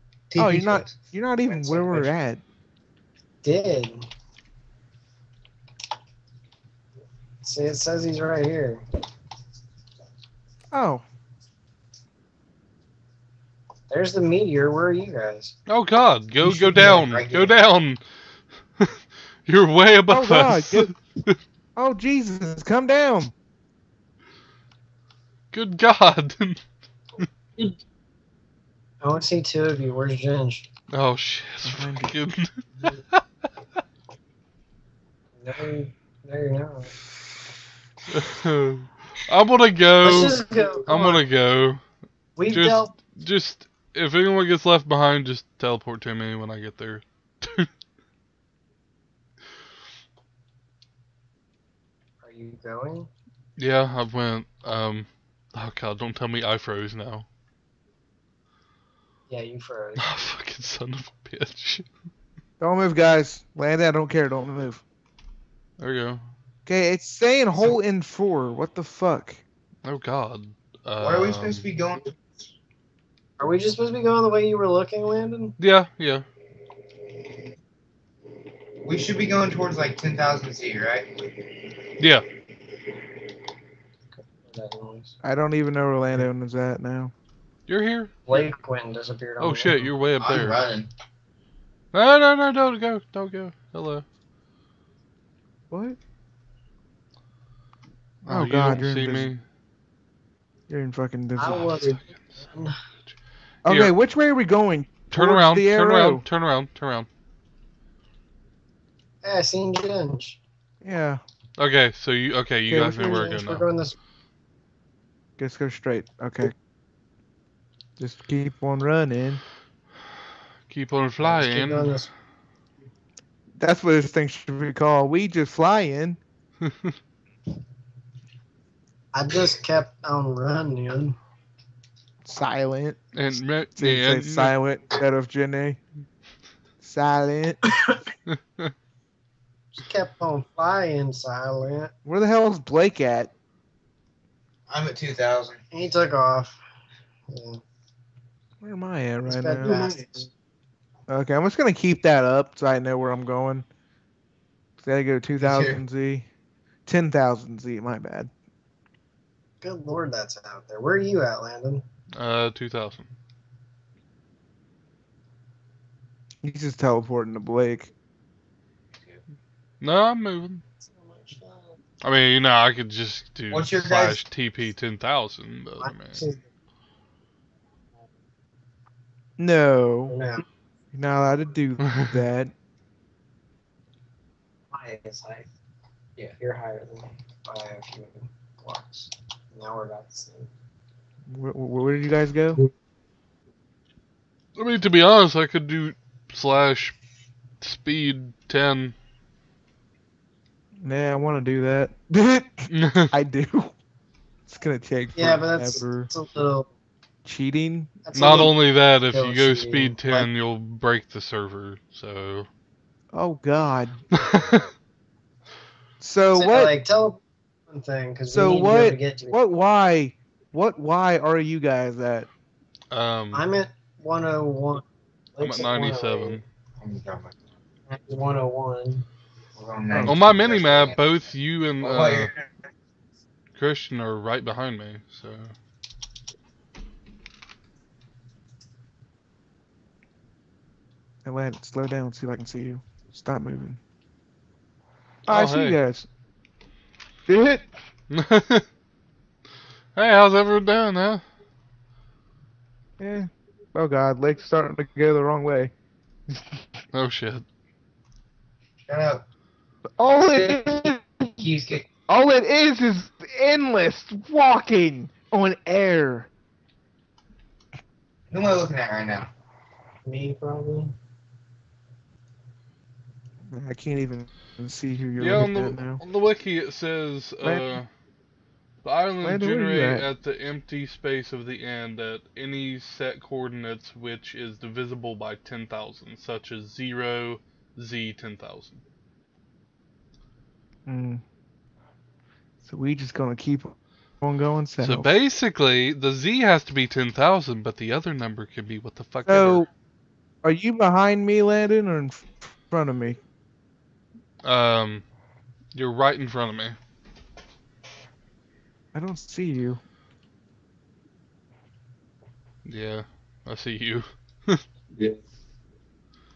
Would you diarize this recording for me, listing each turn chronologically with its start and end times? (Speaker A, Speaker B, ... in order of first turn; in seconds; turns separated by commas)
Speaker A: 0.3-0.9, Speaker B: 0.4-2.4, Speaker A: 1.5-2.1, Speaker C: 3.4-4.1, Speaker C: 7.4-8.9, Speaker B: 10.7-11.1, Speaker C: 13.9-15.6, Speaker D: 15.7-18.0, Speaker A: 16.4-17.6, Speaker D: 19.4-21.4, Speaker B: 20.1-20.9, Speaker B: 21.8-23.3, Speaker D: 25.5-26.6, Speaker C: 29.0-30.7, Speaker D: 30.9-33.2, Speaker B: 31.6-32.1, Speaker C: 35.4-36.9, Speaker D: 38.1-41.8, Speaker C: 40.0-41.2, Speaker C: 42.4-43.0, Speaker D: 42.5-47.7, Speaker C: 52.2-53.1, Speaker D: 53.6-57.3, Speaker C: 59.3-60.1, Speaker D: 60.0-61.9, Speaker B: 62.6-64.8, Speaker D: 65.8-66.3, Speaker B: 66.7-69.4, Speaker D: 69.8-71.7, Speaker A: 71.0-72.2, Speaker C: 73.4-75.6, Speaker D: 75.6-76.3, Speaker A: 78.8-81.1, Speaker D: 82.0-82.2, Speaker C: 84.2-85.1, Speaker B: 85.2-87.1, Speaker D: 87.7-88.2, Speaker C: 88.3-89.9, Speaker D: 89.4-90.6, Speaker A: 90.2-90.9, Speaker D: 91.9-94.0, Speaker B: 95.7-96.0, Speaker D: 98.2-99.4, Speaker B: 98.3-99.3, Speaker B: 100.7-101.9, Speaker C: 101.4-102.8, Speaker D: 101.8-102.6, Speaker B: 103.7-106.2, Speaker D: 103.7-104.0, Speaker D: 105.1-107.1, Speaker C: 109.2-110.4, Speaker B: 110.8-111.2, Speaker D: 111.6-113.7, Speaker B: 112.7-113.3, Speaker C: 113.1-114.0, Speaker B: 115.4-116.5, Speaker B: 118.0-119.4, Speaker D: 120.7-122.0, Speaker C: 121.3-122.1, Speaker B: 123.6-126.2, Speaker D: 126.6-126.9, Speaker C: 129.1-131.2, Speaker B: 132.2-133.0, Speaker D: 133.1-134.6, Speaker B: 133.8-135.8, Speaker B: 136.8-137.6, Speaker D: 138.3-138.7, Speaker C: 139.8-141.9, Speaker B: 142.1-143.3, Speaker A: 144.7-145.6, Speaker C: 145.7-146.6, Speaker C: 147.3-147.6, Speaker B: 148.6-149.9, Speaker C: 149.3-150.3, Speaker A: 149.7-150.0, Speaker B: 151.1-153.7, Speaker B: 154.8-156.3, Speaker A: 155.4-155.8, Speaker B: 156.9-158.3, Speaker C: 159.6-161.8, Speaker D: 162.2-163.1, Speaker B: 166.4-167.9, Speaker A: 169.0-169.2, Speaker D: 169.8-170.6, Speaker C: 170.8-171.8, Speaker D: 172.0-176.2, Speaker A: 173.5-174.2, Speaker C: 175.8-176.4, Speaker B: 179.4-180.2, Speaker C: 180.1-180.4, Speaker B: 180.9-182.5, Speaker C: 184.7-185.5, Speaker C: 186.4-190.5, Speaker B: 191.3-192.6, Speaker D: 194.6-197.0, Speaker D: 197.6-199.0, Speaker B: 200.8-203.7, Speaker D: 202.7-203.1, Speaker B: 204.5-206.1, Speaker C: 205.2-206.7, Speaker B: 207.2-207.9, Speaker C: 208.1-210.2, Speaker D: 208.1-212.5, Speaker B: 213.1-214.0, Speaker D: 214.2-214.7, Speaker B: 216.0-216.7, Speaker C: 216.3-219.4, Speaker B: 218.3-222.3, Speaker D: 222.9-223.5, Speaker C: 223.3-226.4, Speaker D: 225.4-226.4, Speaker A: 226.8-227.4, Speaker C: 227.9-229.1, Speaker A: 229.6-231.1, Speaker B: 229.9-230.2, Speaker D: 230.1-232.3, Speaker A: 231.8-232.5, Speaker D: 233.6-235.5, Speaker B: 241.2-243.8, Speaker B: 245.3-246.1, Speaker D: 245.3-245.8, Speaker B: 247.3-247.7, Speaker D: 248.1-248.7, Speaker D: 249.9-251.2, Speaker B: 253.0-255.7, Speaker B: 256.3-256.6, Speaker D: 256.9-257.4, Speaker A: 258.9-259.2, Speaker B: 260.0-261.4, Speaker A: 261.4-261.9, Speaker B: 262.1-266.3, Speaker A: 268.3-269.3, Speaker C: 270.1-270.9, Speaker B: 273.5-276.0, Speaker D: 275.2-277.9, Speaker B: 277.4-277.8, Speaker D: 278.8-288.8, Speaker B: 279.2-280.1, Speaker B: 290.9-291.2, Speaker B: 292.6-295.1, Speaker D: 294.8-299.7, Speaker B: 299.2-299.7, Speaker B: 300.4-303.2, Speaker D: 304.4-305.0, Speaker D: 305.7-306.8, Speaker B: 308.9-309.8, Speaker D: 312.6-314.6